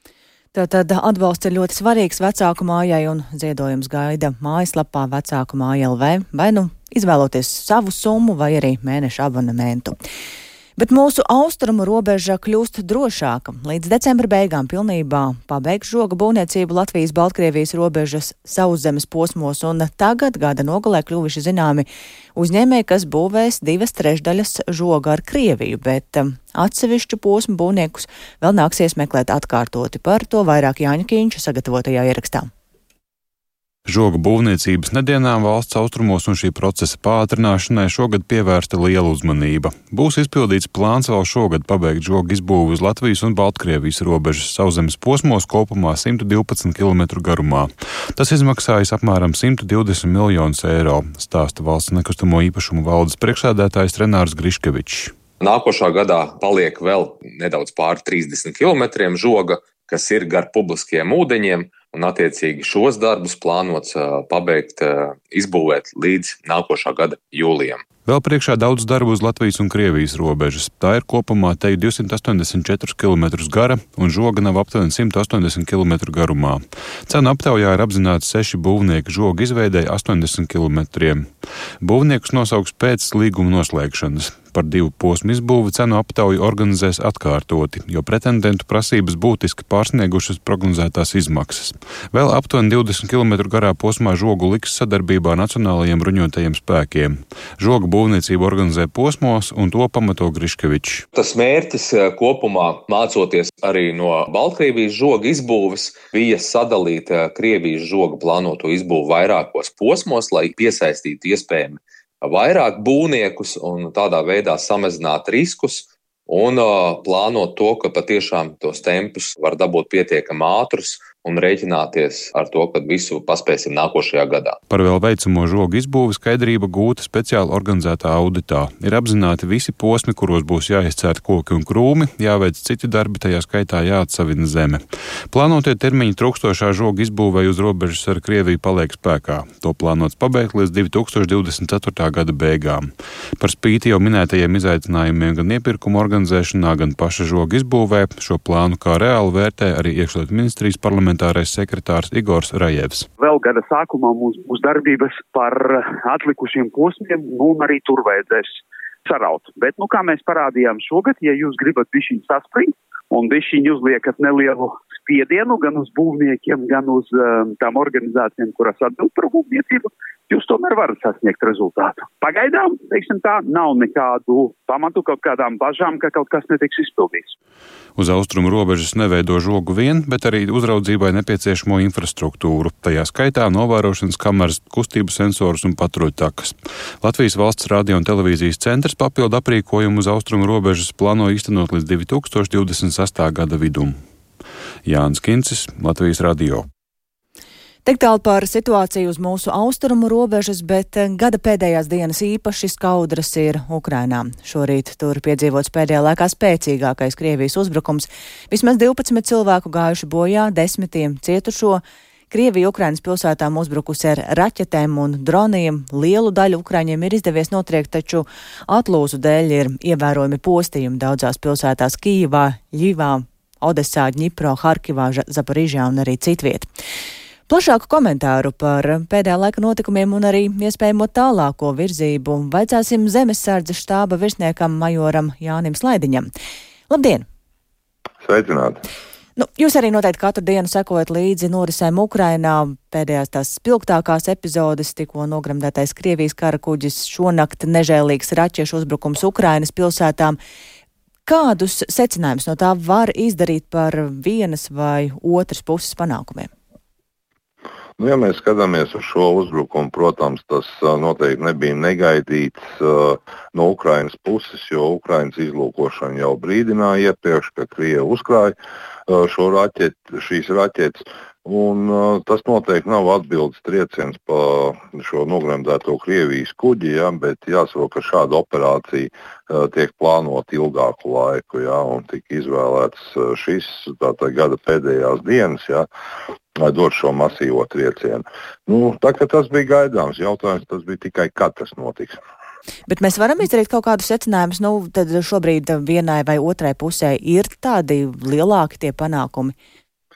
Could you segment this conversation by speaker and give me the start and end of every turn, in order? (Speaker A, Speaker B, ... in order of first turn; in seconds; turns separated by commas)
Speaker A: 0.5-10.0, Speaker A: 10.8-32.5, Speaker B: 33.9-55.1, Speaker C: 55.4-67.8, Speaker B: 68.1-101.0, Speaker C: 101.1-124.6, Speaker B: 124.7-153.1, Speaker D: 153.2-177.3, Speaker B: 178.0-194.0, Speaker B: 194.8-196.7, Speaker A: 197.9-226.7, Speaker A: 227.5-236.3, Speaker A: 236.9-237.2, Speaker E: 238.2-238.8, Speaker A: 239.4-250.4, Speaker A: 251.2-256.5, Speaker E: 258.0-268.5, Speaker E: 269.1-285.9, Speaker E: 286.6-292.2, Speaker A: 292.9-299.5